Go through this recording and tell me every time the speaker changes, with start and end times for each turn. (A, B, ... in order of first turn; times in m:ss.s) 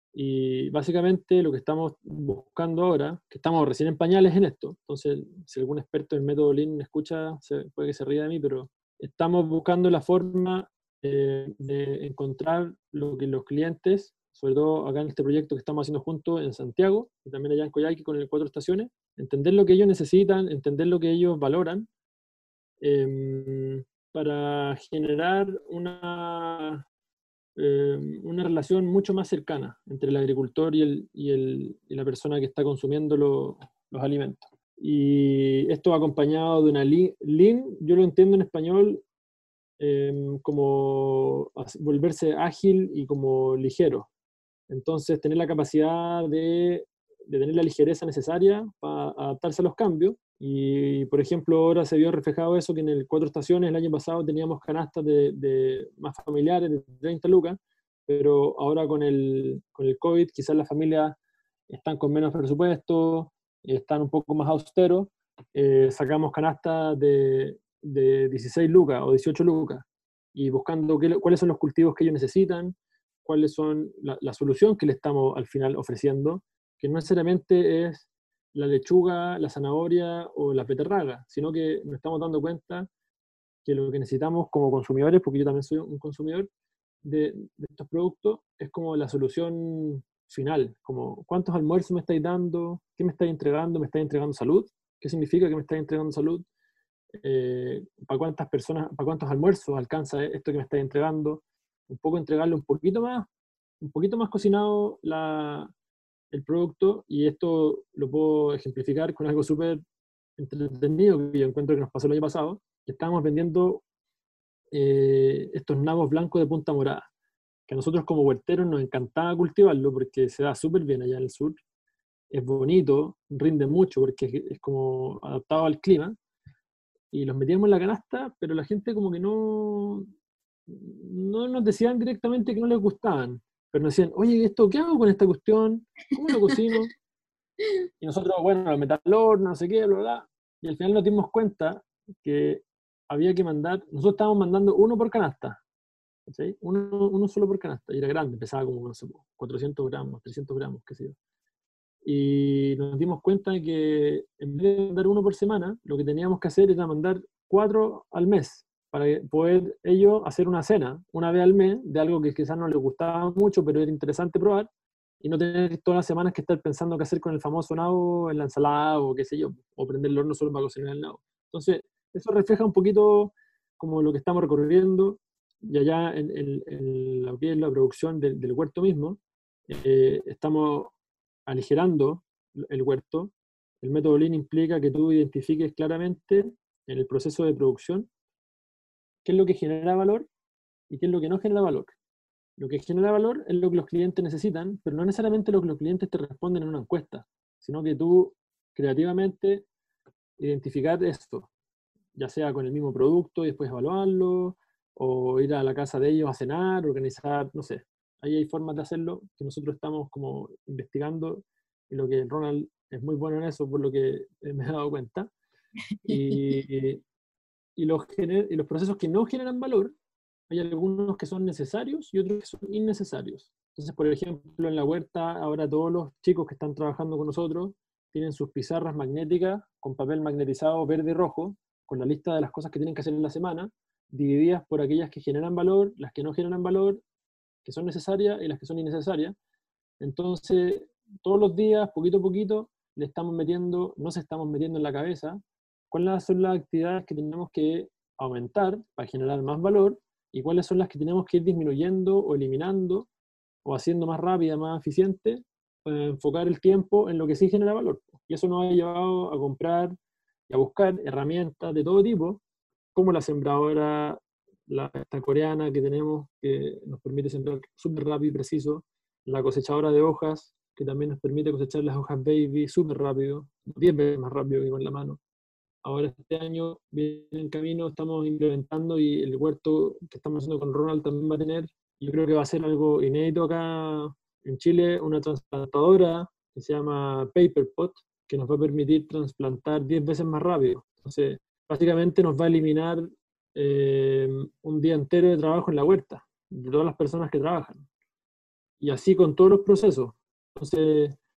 0:00.2-0:21.9 A
0:22.8-0:26.8 A
0:27.6-0:39.0 A
0:39.8-0:44.1 A
0:44.7-1:01.2 A
1:01.7-1:22.9 A
1:23.6-1:26.5 A
1:27.0-1:36.5 A
1:37.2-1:43.3 A
1:43.8-1:45.7 A
1:46.3-1:49.8 A
1:50.4-1:53.8 A
1:54.7-1:57.1 A
1:57.7-2:01.6 A
2:02.3-2:06.2 A
2:07.1-2:10.1 A
2:10.7-2:16.9 A
2:18.0-2:25.6 A
2:26.3-2:31.2 A
2:32.0-2:44.7 A
2:45.2-3:00.9 A
3:01.5-3:08.1 A
3:09.2-3:10.3 A
3:10.9-3:12.0 A
3:12.6-3:19.7 A
3:20.4-3:21.5 A
3:22.2-3:35.3 A
3:36.1-3:37.0 A
3:37.8-3:39.9 A
3:40.5-3:57.0 A
3:57.6-3:59.4 A
4:00.0-4:13.1 A
4:13.6-4:20.0 A
4:20.5-4:22.4 A
4:23.0-4:35.2 A
4:35.8-4:57.9 A
4:58.8-5:01.2 A